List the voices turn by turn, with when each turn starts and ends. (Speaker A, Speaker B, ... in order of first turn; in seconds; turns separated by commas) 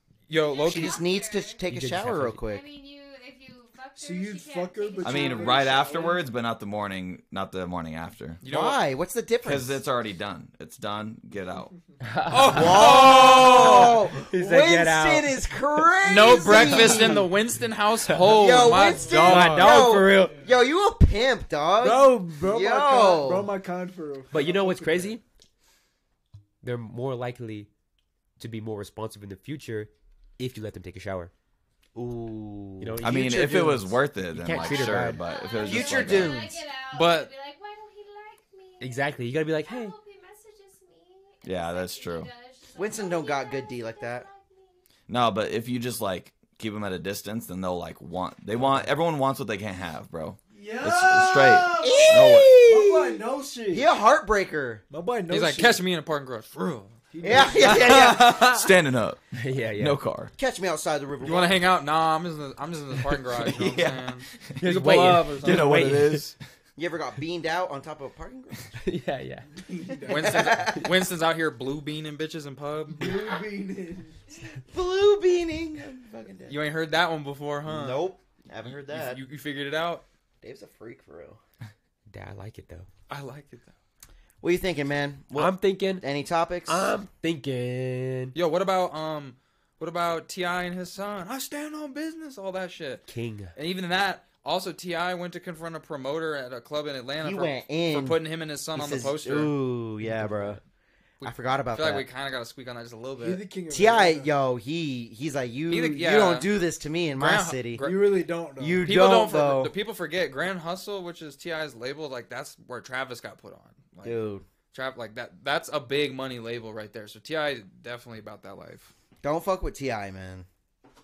Speaker A: 0.3-1.0, Speaker B: 0.3-1.6, Speaker C: 0.6-2.6, Speaker D: 1.6-2.4, Speaker B: 2.4-6.2, Speaker E: 3.9-6.3, Speaker F: 5.0-8.4, Speaker A: 8.4-8.8, Speaker C: 8.4-9.8, Speaker F: 9.4-11.7, Speaker D: 12.0-17.3, Speaker A: 12.3-14.0, Speaker C: 12.4-17.3, Speaker A: 16.1-20.0, Speaker D: 18.1-18.4, Speaker C: 18.2-23.5, Speaker E: 18.6-20.6, Speaker D: 19.1-20.4, Speaker E: 21.8-25.2, Speaker D: 24.3-25.2, Speaker D: 26.6-27.7, Speaker D: 28.4-31.3, Speaker C: 31.9-33.7, Speaker D: 32.8-35.2, Speaker F: 33.0-36.5, Speaker B: 34.6-44.8, Speaker C: 35.6-36.6, Speaker A: 36.9-37.3, Speaker D: 38.8-39.9, Speaker F: 41.4-42.3, Speaker C: 42.7-44.3, Speaker F: 45.1-52.6, Speaker E: 50.5-53.9, Speaker C: 51.8-54.8, Speaker E: 54.9-55.8, Speaker A: 55.3-57.0, Speaker E: 57.1-57.9, Speaker C: 57.2-58.3, Speaker A: 57.5-58.7, Speaker F: 57.8-60.3, Speaker D: 59.3-60.0, Speaker C: 60.4-61.7, Speaker A: 61.2-65.8, Speaker F: 63.5-64.6, Speaker D: 64.6-66.3, Speaker F: 65.3-66.4, Speaker C: 66.8-68.7, Speaker D: 68.8-70.0, Speaker E: 69.5-70.7, Speaker A: 70.1-73.1, Speaker C: 70.1-70.9, Speaker E: 72.9-74.2, Speaker C: 74.7-76.6, Speaker A: 76.5-78.0, Speaker C: 77.7-79.2, Speaker A: 78.8-80.0, Speaker C: 80.4-81.4, Speaker D: 82.1-82.9, Speaker A: 83.1-83.7, Speaker C: 84.4-86.9, Speaker D: 85.3-86.0, Speaker D: 86.7-88.3, Speaker A: 88.3-99.5, Speaker D: 93.1-93.5, Speaker C: 97.2-98.2, Speaker C: 98.7-100.6, Speaker D: 100.0-100.6, Speaker A: 101.2-103.4, Speaker C: 101.2-102.1, Speaker E: 103.2-104.3, Speaker C: 103.7-107.9, Speaker A: 105.7-106.5, Speaker A: 107.1-108.2, Speaker E: 107.8-108.9, Speaker C: 108.6-109.7, Speaker A: 108.8-118.9, Speaker C: 114.0-114.4, Speaker C: 119.2-120.5